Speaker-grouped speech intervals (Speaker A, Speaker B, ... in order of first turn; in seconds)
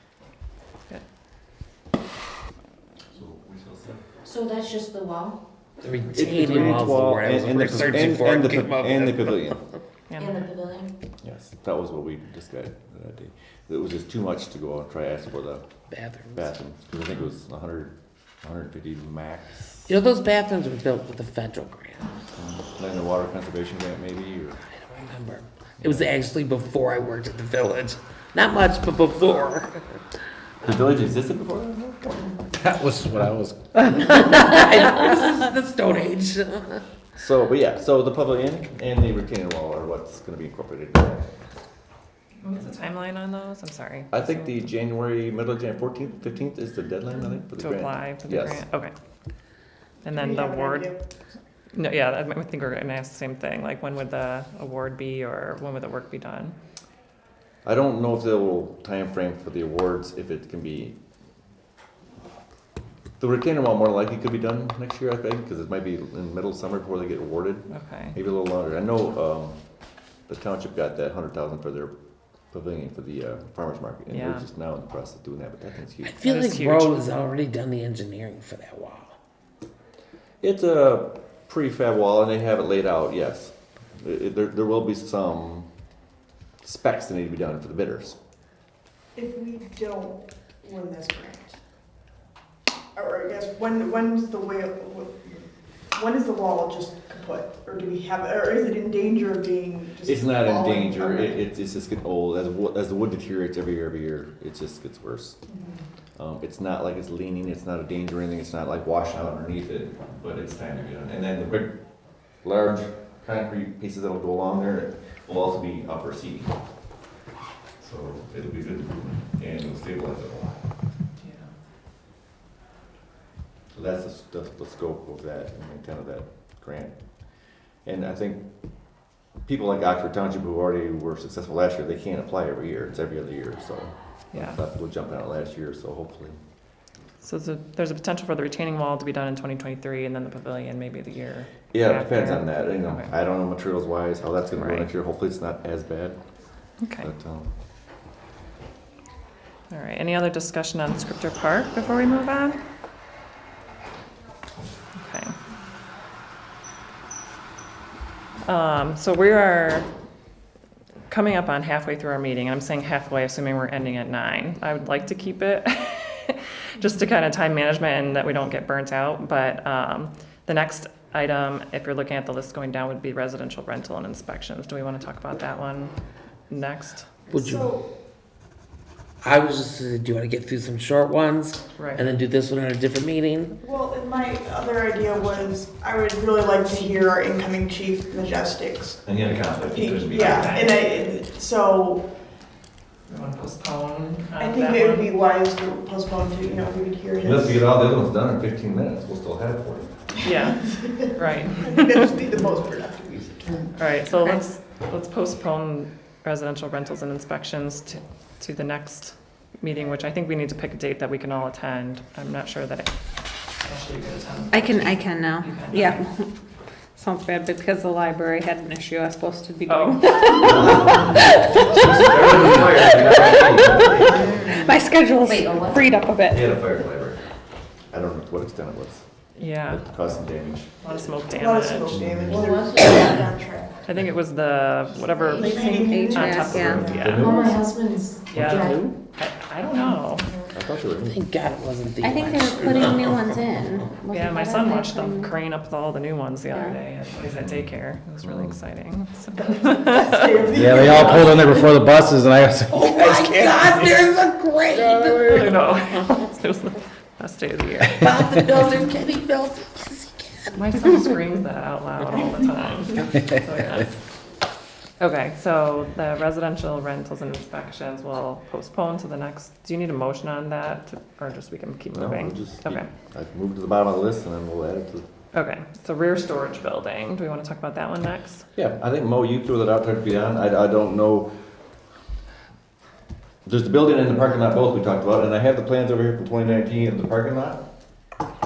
Speaker A: 3.1-4.0, 6.1-9.6, 11.2-15.6, 16.3-19.9, 22.4-24.6, 25.8-26.1, 30.6-32.3, 37.2-41.3, 44.1-48.6, 57.6-61.0, 63.2-69.6, 70.3-71.9, 72.5-76.2, 80.4-85.7, 86.6-88.2, 100.0-105.4, 106.2-111.8, 112.4-116.5, 117.8-120.6, 123.7-127.0, 127.8-128.5, 129.4-136.4, 141.7-146.2, 147.0-147.5, 189.0-190.6, 197.2-200.0, 220.5-224.7, 226.2-227.2, 227.9-229.1, 229.7-230.7, 231.9-232.5, 236.3-237.6, 238.3-238.9, 240.5-241.2, 247.4-248.6, 250.4-251.4, 271.9-275.1, 278.6-281.3, 283.4-287.6
Speaker B: 4.2-5.4, 10.2-10.9, 225.3-226.0, 232.3-233.2, 235.2-235.9, 237.2-238.8, 254.9-255.4
Speaker C: 5.8-9.5, 15.9-16.5, 19.9-22.1, 24.7-29.8, 33.9-36.8, 76.0-79.1, 177.3-177.7, 179.2-183.5, 241.1-243.2, 252.7-255.6, 258.0-261.0
Speaker D: 10.1-10.5, 42.4-44.7, 47.6-48.9, 50.0-50.9, 51.7-56.5, 67.7-68.2, 74.1-74.5, 76.2-77.0, 121.2-121.5, 134.3-134.6, 137.2-143.1, 144.6-144.9, 146.8-147.1, 149.7-152.6, 155.0-155.3, 158.4-159.9, 161.1-175.9, 176.5-177.1, 181.8-182.1, 190.1-191.0, 193.1-195.1, 200.2-201.9, 203.8-212.9, 213.6-216.0, 219.7-220.6, 229.3-230.2, 230.8-231.9, 233.9-237.4, 238.3-240.3, 244.1-250.3, 255.2-258.1, 260.6-264.0, 265.0-272.9, 275.3-278.4
Speaker E: 32.6-33.6, 250.5-253.5
Speaker F: 50.1-51.0, 89.1-91.5, 92.9-101.4, 105.5-105.8, 177.3-177.8, 183.6-192.0, 194.4-197.7, 200.4-203.7, 230.8-233.8, 235.3-237.5, 249.4-251.7
Speaker G: 214.5-216.3, 217.0-221.6, 223.0-226.5, 235.7-236.8, 242.0-245.3, 246.5-246.8